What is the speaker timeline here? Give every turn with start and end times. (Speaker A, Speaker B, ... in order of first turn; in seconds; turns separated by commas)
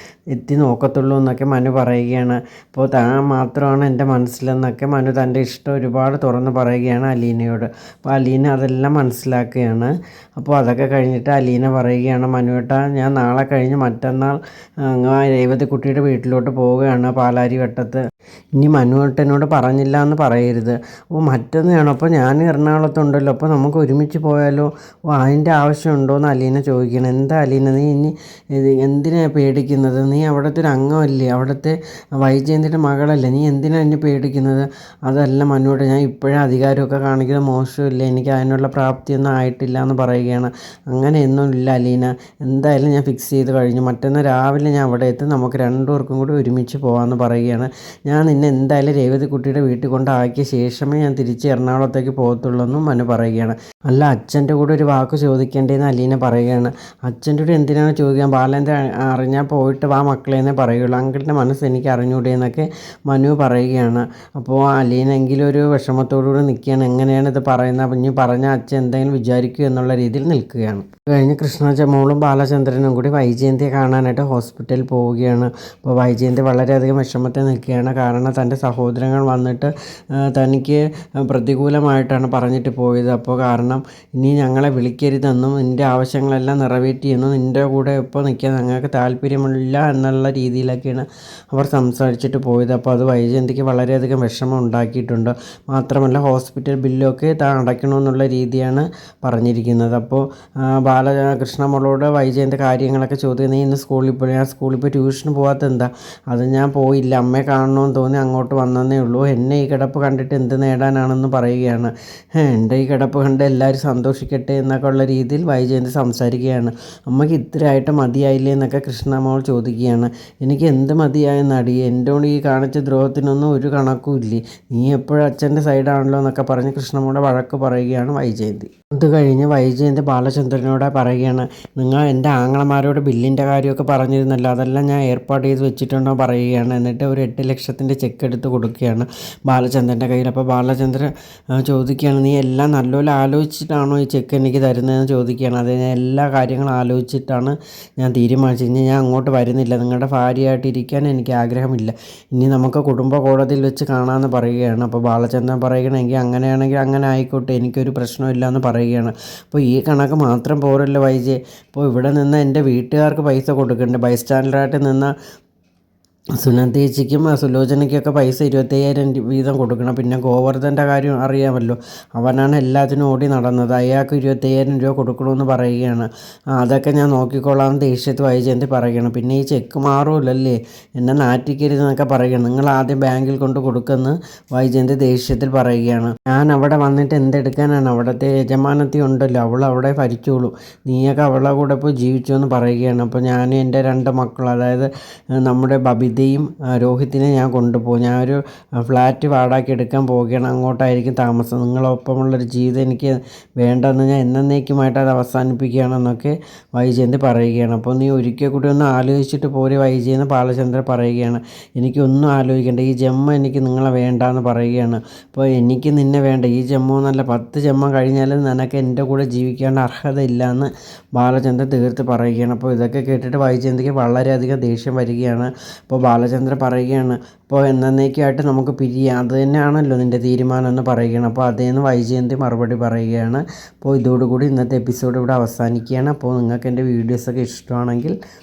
Speaker A: 0.3-18.0, Speaker A: 18.6-165.1, Speaker A: 166.4-194.9, Speaker A: 195.4-238.2